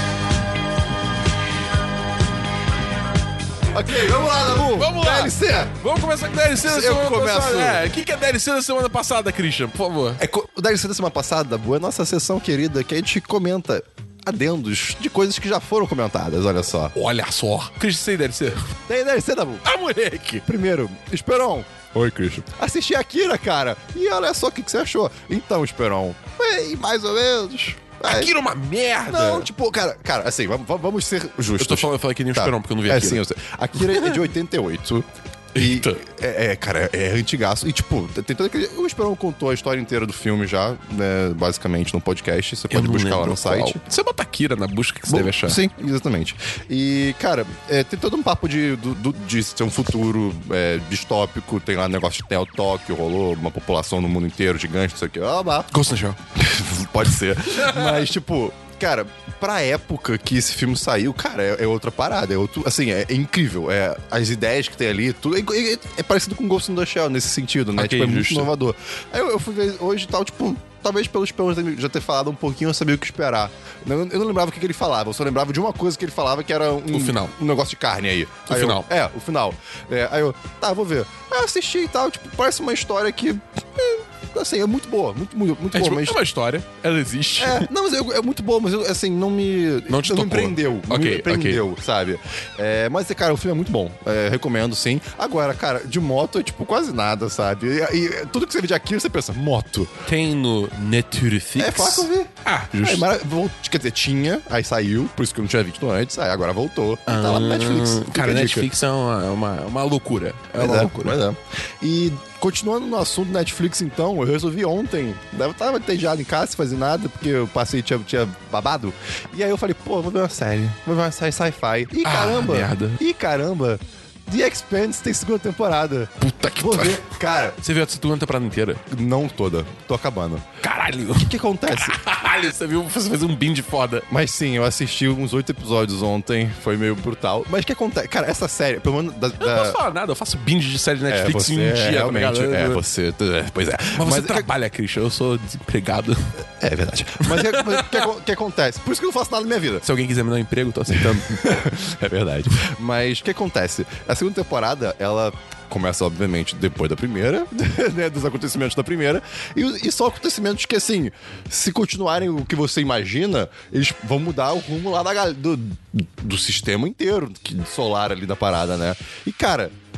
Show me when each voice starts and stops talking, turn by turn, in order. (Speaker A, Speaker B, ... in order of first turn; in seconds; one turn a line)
Speaker A: 3.7-5.7
Speaker B: 4.8-10.2
Speaker A: 6.6-7.9
Speaker A: 10.2-16.9
Speaker B: 16.9-18.7
Speaker A: 18.9-19.6
Speaker B: 19.6-20.4
Speaker A: 20.4-28.4
Speaker B: 22.0-22.4
Speaker B: 28.0-29.5
Speaker A: 29.1-43.8
Speaker B: 31.6-33.2
Speaker B: 33.8-34.1
Speaker B: 35.5-36.0
Speaker B: 42.7-45.6
Speaker A: 45.1-55.7
Speaker B: 55.7-56.2
Speaker A: 56.4-86.2
Speaker B: 57.5-58.1
Speaker B: 67.8-68.5
Speaker B: 76.9-77.3
Speaker B: 78.5-78.9
Speaker B: 85.7-87.7
Speaker A: 87.4-99.9
Speaker B: 89.9-91.6
Speaker B: 100.1-103.1
Speaker A: 101.6-108.7
Speaker B: 107.1-111.2
Speaker A: 110.6-127.6
Speaker B: 122.0-123.0
Speaker B: 126.2-127.1
Speaker B: 127.6-128.8
Speaker A: 128.9-130.4
Speaker B: 130.6-134.1
Speaker A: 131.2-132.0
Speaker A: 134.1-139.8
Speaker B: 139.4-142.8
Speaker A: 141.1-144.5
Speaker B: 143.9-146.3
Speaker A: 146.6-149.8
Speaker B: 147.2-148.0
Speaker B: 149.8-151.4
Speaker A: 150.9-169.7